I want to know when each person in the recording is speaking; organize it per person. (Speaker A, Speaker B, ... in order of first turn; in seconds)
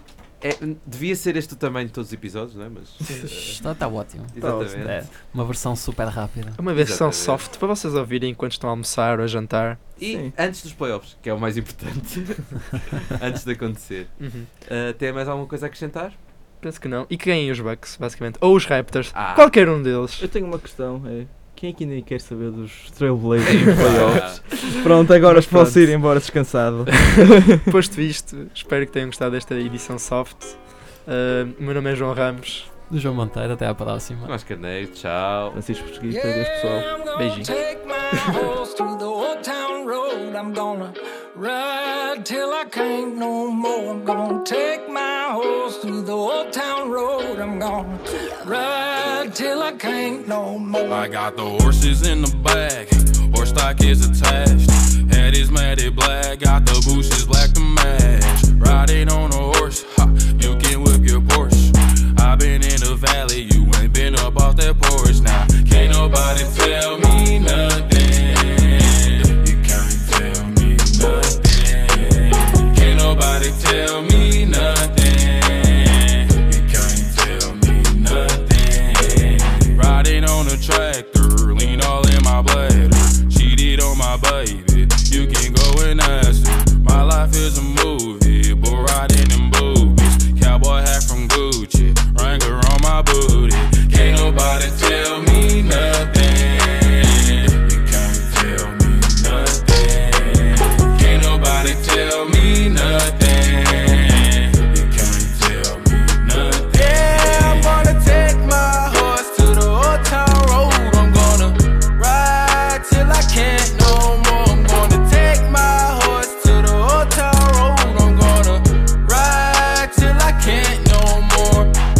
Speaker A: 0.4-3.6, 4.3-5.0, 6.7-7.4, 9.9-16.1, 19.1-19.6, 23.4-24.7, 34.2-35.6
Speaker B: 3.1-6.6, 32.9-34.3
Speaker C: 4.4-4.8, 10.1-10.3, 20.2-27.7, 35.5-36.9
Speaker D: 6.6-9.8, 14.2-14.5, 16.6-20.3, 24.0-24.4, 25.2-25.8, 27.1-32.7, 37.1-37.5
Speaker E: 36.1-51.1
Speaker F: 50.9-121.7